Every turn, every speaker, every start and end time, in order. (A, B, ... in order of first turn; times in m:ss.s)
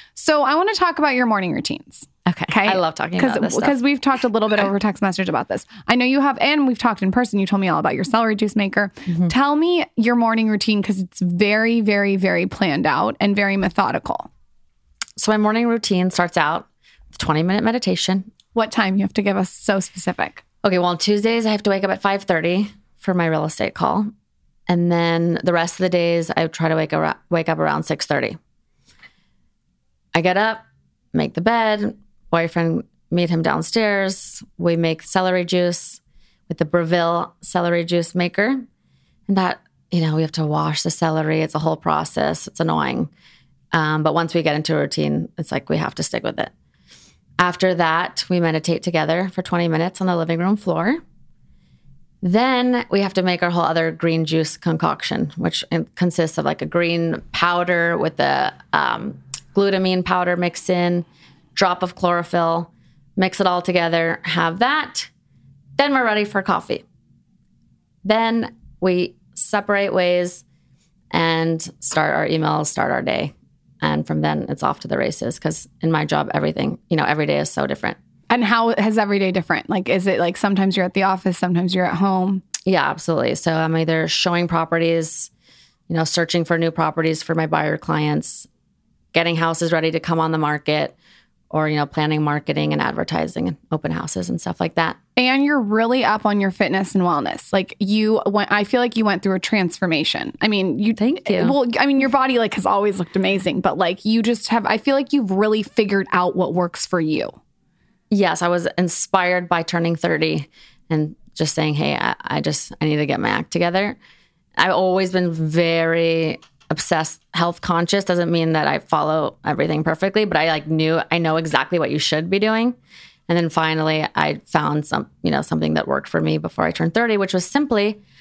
0:00.2-0:14.3 A
0:02.2-0:03.8 B
0:15.2-0:18.3 B
0:18.5-0:20.4 A
0:20.6-0:24.1 B
0:24.7-0:28.4 B
0:30.1-0:38.6 B
0:39.3-0:43.1 B
0:43.7-0:46.5 B
0:47.4-0:51.0 B
0:52.2-1:05.1 B
1:05.8-1:06.8 B
1:08.0-1:10.4 B
1:11.1-1:18.0 B
1:18.3-1:22.4 A
1:22.6-1:25.3 B
1:25.9-1:28.5 B
1:29.1-1:30.9 B
1:31.5-1:35.0 B
1:35.2-1:47.4 A
1:41.0-1:41.5 B
1:48.1-1:54.0 B
1:54.6-2:02.8 B
2:03.3-2:08.0 B